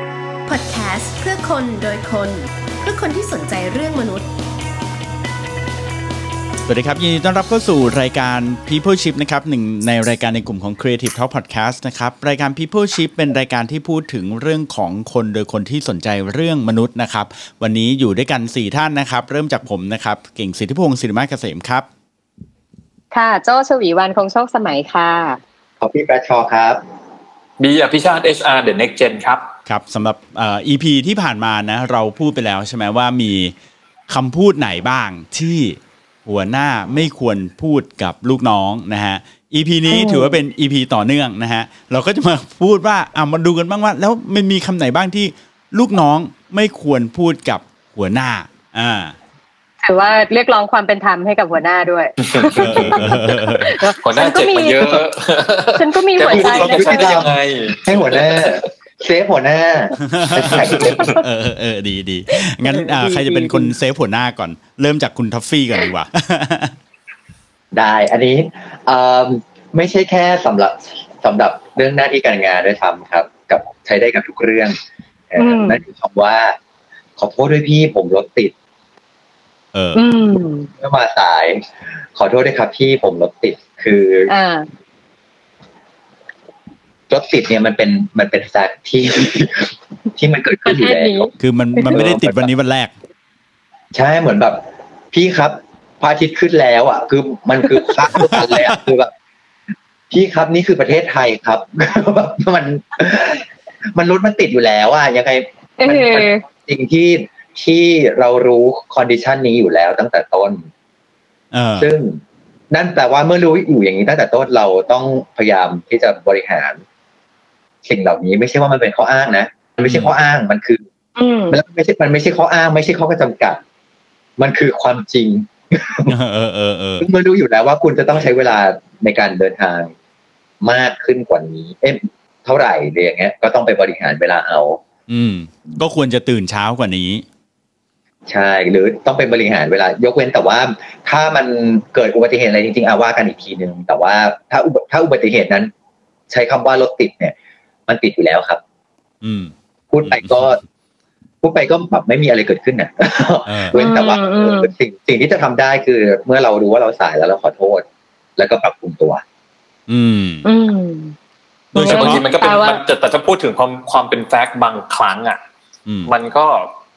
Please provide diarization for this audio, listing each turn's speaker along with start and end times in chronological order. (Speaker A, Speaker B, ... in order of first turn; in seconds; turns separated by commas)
Speaker A: 0.4-4.3, Speaker B: 6.7-21.9, Speaker C: 23.1-25.4, Speaker D: 25.8-26.8, Speaker E: 27.6-29.4, Speaker B: 29.6-33.5, Speaker B: 34.1-49.1, Speaker C: 39.9-40.4, Speaker C: 49.8-55.0, Speaker E: 52.2-53.0, Speaker B: 52.6-53.8, Speaker E: 54.0-58.6, Speaker C: 55.8-57.1, Speaker D: 56.3-61.2, Speaker B: 60.0-66.7, Speaker C: 62.7-63.7, Speaker D: 67.7-74.8, Speaker D: 75.3-76.5, Speaker C: 75.4-75.8, Speaker D: 77.2-78.5, Speaker B: 79.7-80.0, Speaker C: 79.9-80.7, Speaker D: 80.8-84.3, Speaker C: 84.3-84.7, Speaker D: 87.1-91.3, Speaker C: 90.6-92.0, Speaker B: 91.4-92.9, Speaker D: 91.9-92.5, Speaker D: 93.9-99.1, Speaker B: 98.2-98.7, Speaker D: 100.1-110.6, Speaker C: 105.8-106.4, Speaker B: 111.5-111.9, Speaker D: 111.8-112.2, Speaker D: 112.7-116.8, Speaker D: 117.8-120.8, Speaker B: 119.8-120.1, Speaker C: 121.2-121.6, Speaker D: 121.5-123.6, Speaker D: 124.4-126.1, Speaker B: 126.1-127.0, Speaker D: 127.0-129.9, Speaker D: 130.6-134.8, Speaker B: 135.1-137.2, Speaker D: 138.3-145.7, Speaker D: 146.3-147.3, Speaker D: 147.9-148.6, Speaker B: 149.2-149.5, Speaker D: 149.9-150.6, Speaker B: 150.0-150.6, Speaker D: 151.4-157.8, Speaker B: 153.4-153.8, Speaker C: 153.7-154.7, Speaker D: 158.4-159.2, Speaker B: 159.9-160.4, Speaker C: 160.4-161.1, Speaker C: 161.7-162.8, Speaker B: 161.7-162.2, Speaker E: 161.8-165.4, Speaker B: 165.8-166.1, Speaker E: 166.1-166.7